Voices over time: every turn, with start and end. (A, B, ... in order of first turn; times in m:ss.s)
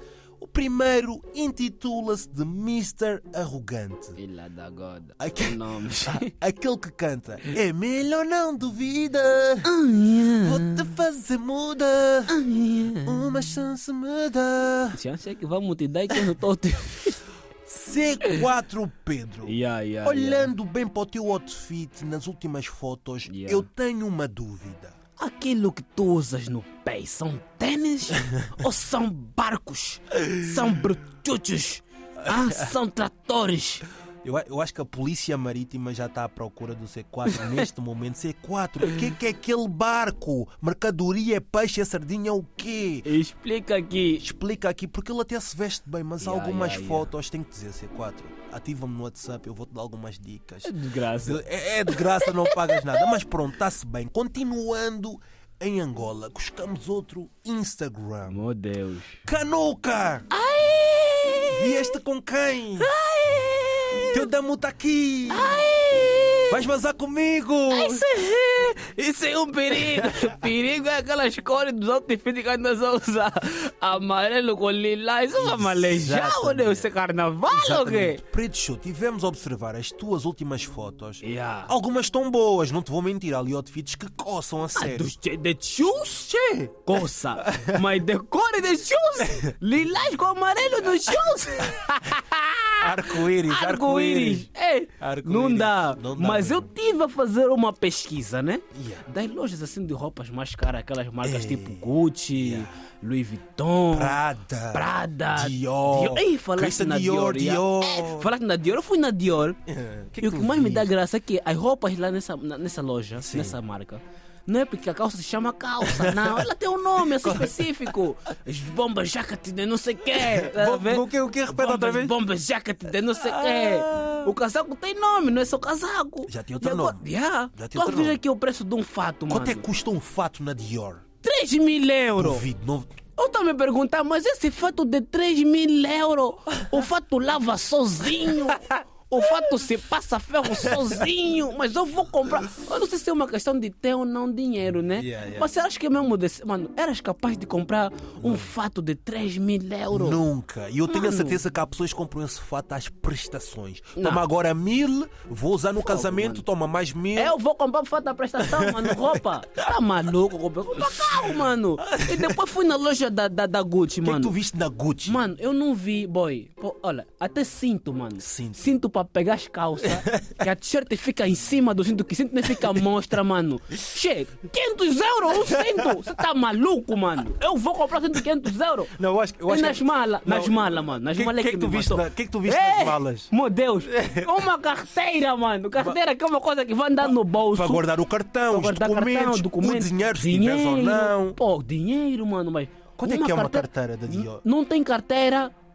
0:00.4-0:04.2 A
0:04.2-0:06.3 B
0:05.2-0:09.7 A
0:09.6-0:10.9 B
0:10.4-0:12.4 A
0:12.3-0:13.3 B
0:13.0-0:15.0 A
0:14.9-0:17.2 B
0:17.7-0:25.0 A
0:19.4-0:20.5 B
0:23.3-0:23.7 B
0:25.2-0:33.8 B
0:32.2-0:32.7 A
0:34.2-0:43.1 A
0:37.3-0:37.6 B
0:43.0-0:44.2 B
0:44.2-0:58.4 A
0:46.2-0:47.1 B
0:50.6-0:53.1 B
0:58.3-0:59.2 B
0:59.2-1:00.3 A
1:00.3-1:02.0 B
1:01.5-1:02.9 A
1:02.8-1:04.3 B
1:04.1-1:05.6 A
1:05.3-1:06.6 B
1:06.5-1:08.1 A
1:07.7-1:18.2 B
1:09.8-1:10.3 A
1:15.4-1:16.9 A
1:17.5-1:25.1 A
1:21.2-1:21.7 B
1:24.7-1:44.2 B
1:27.3-1:27.8 A
1:31.1-1:31.8 A
1:32.8-1:34.5 A
1:35.0-1:36.7 A
1:38.7-1:39.0 A
1:41.2-1:42.7 A
1:43.9-1:48.3 A
1:44.7-1:49.6 B
1:49.7-1:50.9 A
1:50.2-2:09.6 B
1:53.2-1:53.6 A
1:55.8-1:56.5 A
1:57.0-1:58.0 A
2:00.1-2:02.1 A
2:03.1-2:04.3 A
2:06.2-2:08.2 A
2:09.3-2:11.0 A
2:11.2-2:12.4 B
2:12.2-2:12.9 A
2:13.2-2:30.2 B
2:18.2-2:18.8 A
2:20.4-2:21.0 A
2:24.9-2:25.5 A
2:28.2-2:28.5 A
2:29.9-2:37.4 A
2:30.8-2:31.4 B
2:34.0-2:34.2 B
2:35.8-2:36.4 B
2:37.1-2:44.3 B
2:38.4-2:39.7 A
2:40.8-2:42.4 A
2:44.0-2:45.2 A
2:45.0-2:58.9 B
2:48.2-2:48.7 A
2:49.9-2:50.4 A
2:55.3-2:56.2 A
2:58.9-3:03.3 A
2:59.4-3:07.9 B
3:03.8-3:04.5 A
3:07.0-3:11.4 A
3:08.5-3:15.5 B
3:13.0-3:14.4 A